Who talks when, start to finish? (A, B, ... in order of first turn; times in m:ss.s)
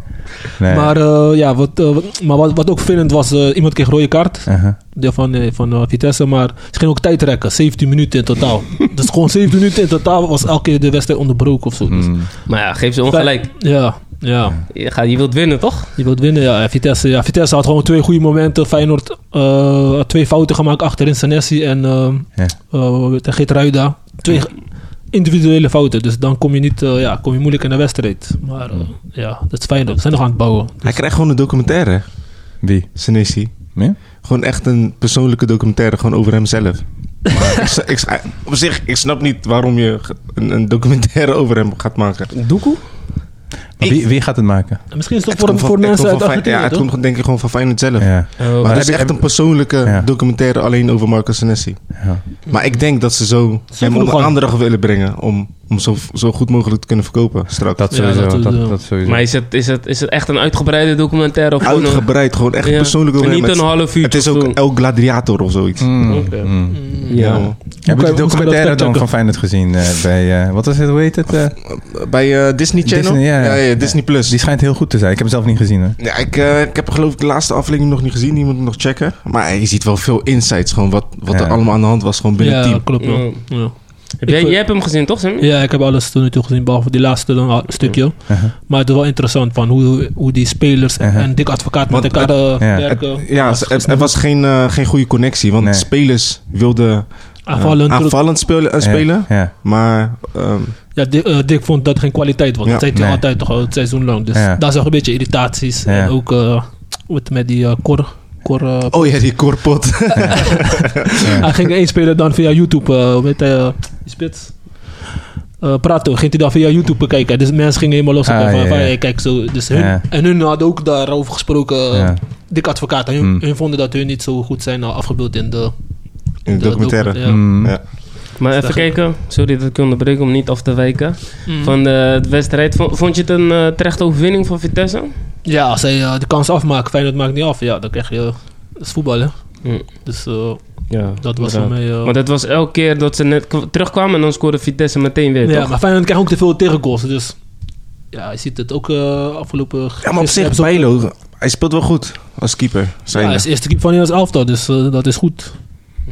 0:00.4-0:00.9 A
0:00.6-0:12.3 B
0:04.5-0:04.8 A
0:11.8-0:12.3 A
0:12.4-0:13.5 C
0:13.1-0:14.6 B
0:14.7-0:16.0 C
0:16.0-0:31.0 B
0:30.8-0:42.3 D
0:32.6-0:33.0 A
0:42.3-0:42.8 C
0:43.8-0:44.8 A
0:44.9-0:46.9 B
0:45.3-0:57.9 D
0:48.0-0:50.1 A
0:48.4-0:48.8 C
0:52.5-0:52.8 B
0:53.7-0:54.3 B
0:57.8-0:59.2 A
0:57.9-0:58.8 B
0:59.0-1:04.6 C
1:01.6-1:05.9 D
1:05.8-1:07.0 A
1:06.0-1:07.5 C
1:06.7-1:09.0 B
1:07.1-1:07.6 D
1:07.8-1:11.6 A
1:11.6-1:14.4 D
1:12.8-1:16.0 A
1:16.0-1:22.8 D
1:21.3-1:21.6 A
1:22.4-1:24.6 B
1:23.0-1:25.5 C
1:25.4-1:34.1 B
1:28.3-1:28.5 A
1:31.0-1:31.3 A
1:31.9-1:40.8 D
1:32.6-1:32.9 A
1:35.6-1:35.8 A
1:37.4-1:38.2 B
1:38.8-1:39.5 A
1:40.9-1:49.3 B
1:42.9-1:43.2 A
1:44.3-1:44.6 A
1:45.8-1:46.1 A
1:48.9-1:51.6 D
1:50.4-1:54.9 B
1:55.6-2:05.7 B
1:58.2-2:00.0 A
2:01.9-2:02.2 A
2:06.4-2:08.0 B
2:06.4-2:07.9 D
2:07.2-2:07.8 A
2:08.4-2:15.1 C
2:08.6-2:08.9 B
2:11.4-2:11.7 B
2:15.4-2:22.1 B
2:19.6-2:19.9 C
2:20.9-2:25.7 C
2:25.4-2:27.4 B
2:28.1-2:30.9 B
2:30.0-2:33.5 D
2:33.1-2:35.5 B